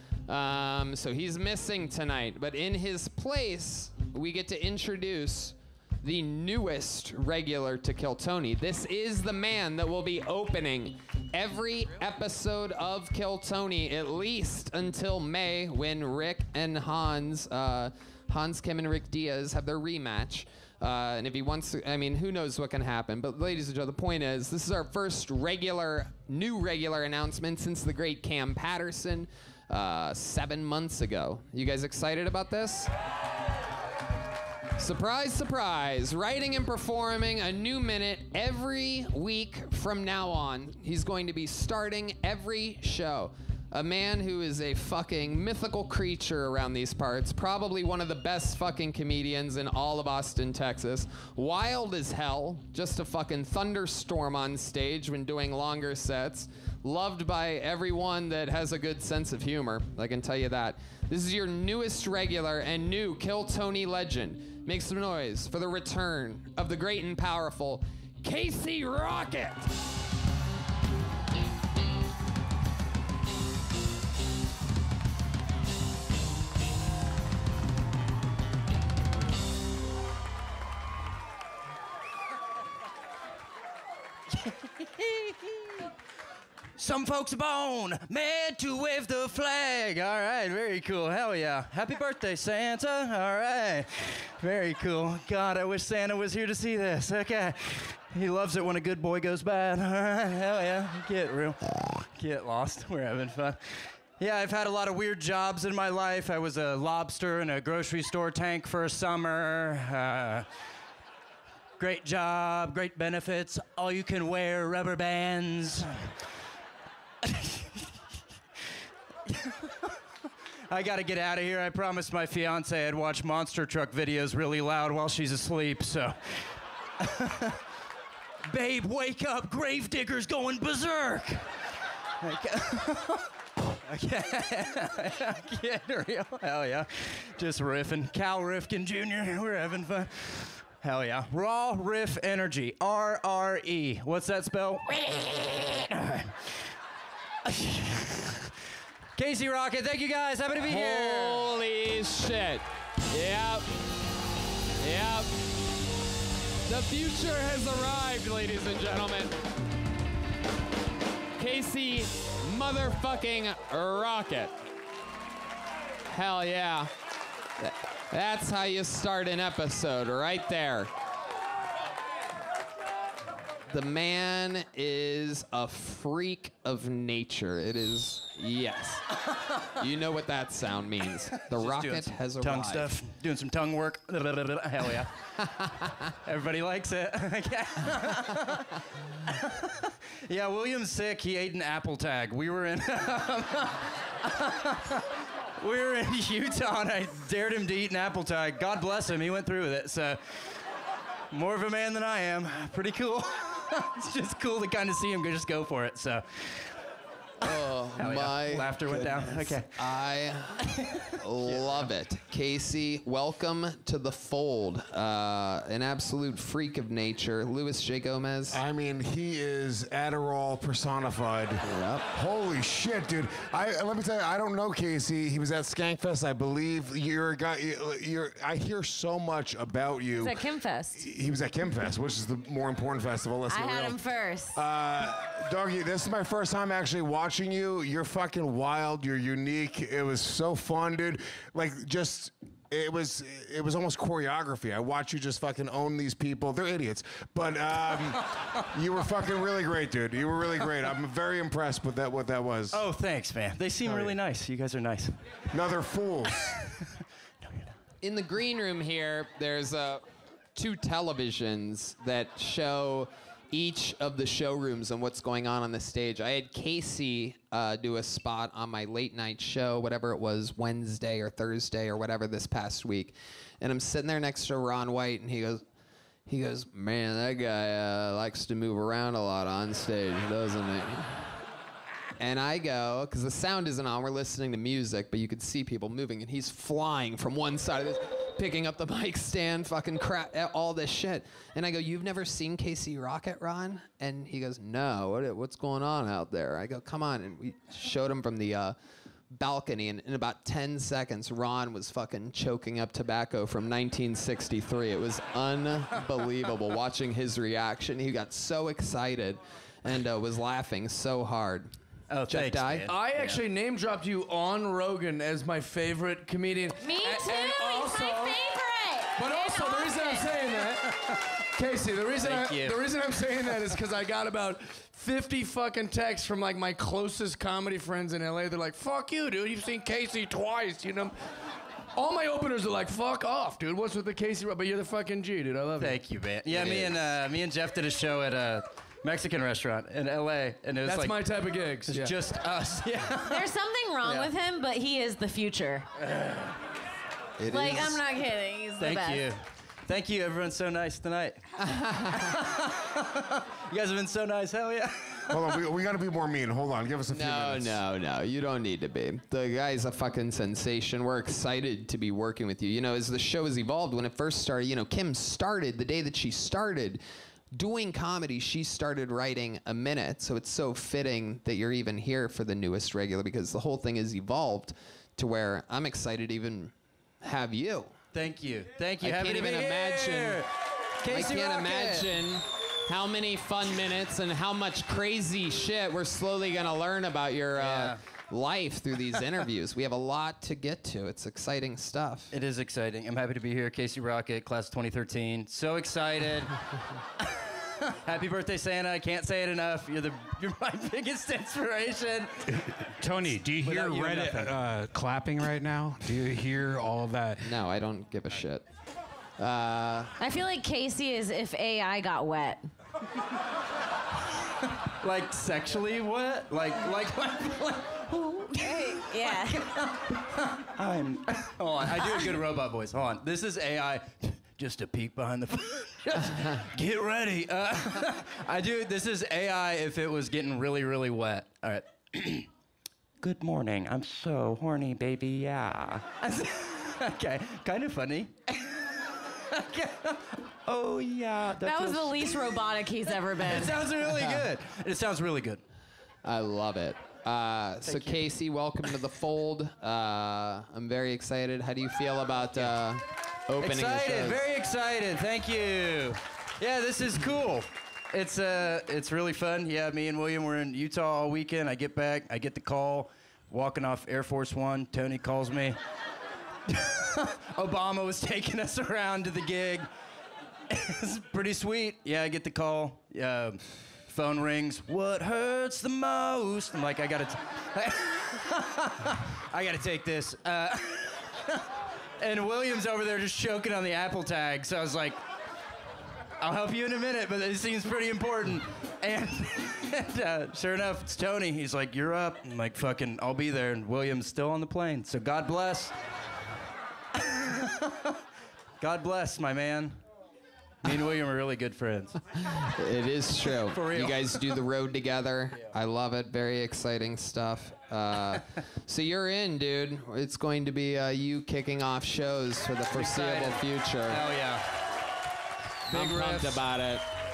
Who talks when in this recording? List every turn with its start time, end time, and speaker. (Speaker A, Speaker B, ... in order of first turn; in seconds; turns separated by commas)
Speaker A: 0.3-32.9, Speaker A: 34.8-69.7, Speaker B: 84.4-85.9, Speaker B: 86.8-110.5, Speaker B: 111.8-116.2, Speaker B: 117.2-117.9, Speaker B: 119.3-120.0, Speaker B: 120.7-127.6, Speaker B: 128.4-131.5, Speaker B: 132.2-146.7, Speaker B: 147.5-148.5, Speaker B: 149.2-151.5, Speaker A: 150.6-153.7, Speaker A: 154.8-155.3, Speaker A: 156.7-159.3, Speaker A: 161.4-164.5, Speaker A: 166.1-166.9, Speaker A: 167.6-170.9, Speaker A: 173.7-179.0, Speaker A: 179.7-182.9, Speaker B: 181.5-185.2, Speaker A: 185.6-186.0, Speaker B: 186.2-195.1, Speaker B: 195.6-200.7, Speaker B: 201.3-206.8, Speaker A: 207.4-218.6, Speaker B: 207.4-209.8, Speaker B: 210.8-211.9, Speaker C: 218.5-230.4, Speaker A: 221.6-222.1, Speaker D: 230.1-231.0, Speaker C: 230.9-252.8, Speaker D: 233.5-234.6, Speaker B: 248.2-248.7, Speaker B: 252.7-255.5, Speaker C: 253.8-254.2, Speaker C: 255.5-256.6, Speaker B: 257.4-257.7, Speaker A: 258.0-275.6, Speaker A: 276.3-281.4, Speaker A: 282.2-298.8, Speaker A: 299.3-311.7, Speaker B: 312.1-313.4, Speaker A: 312.3-312.9, Speaker E: 312.9-318.5, Speaker D: 316.8-320.5, Speaker E: 319.2-320.9, Speaker B: 320.8-321.2, Speaker E: 321.6-331.1, Speaker B: 322.2-323.6, Speaker E: 331.9-336.9, Speaker B: 335.8-341.2, Speaker E: 340.8-342.1, Speaker B: 341.8-343.5, Speaker D: 343.2-345.9, Speaker B: 346.0-346.6, Speaker A: 347.4-348.0, Speaker D: 347.4-349.2, Speaker B: 348.8-351.5, Speaker A: 351.6-352.4, Speaker B: 352.2-355.6, Speaker C: 355.3-357.8, Speaker A: 357.1-367.0, Speaker A: 367.5-377.9, Speaker B: 378.1-380.5, Speaker A: 379.0-380.4, Speaker B: 381.0-382.1, Speaker A: 381.1-392.3, Speaker B: 387.6-388.0, Speaker B: 392.3-396.6, Speaker B: 397.2-402.7, Speaker F: 402.6-407.6, Speaker B: 403.6-404.6, Speaker A: 407.4-408.6, Speaker A: 409.4-410.1, Speaker D: 410.2-412.7, Speaker B: 414.6-432.5, Speaker D: 418.5-419.6, Speaker B: 433.2-439.0, Speaker B: 439.5-445.6, Speaker D: 441.6-443.8, Speaker A: 444.2-444.5, Speaker A: 446.2-454.4, Speaker B: 447.9-448.3, Speaker B: 453.6-465.8, Speaker B: 466.7-469.9, Speaker B: 470.7-481.7, Speaker B: 482.2-485.2, Speaker B: 486.4-495.9, Speaker B: 497.2-498.2, Speaker B: 498.8-500.0, Speaker B: 500.8-502.2, Speaker A: 502.4-514.2, Speaker B: 503.7-504.6, Speaker B: 512.9-514.6, Speaker A: 515.9-517.0, Speaker B: 515.9-516.6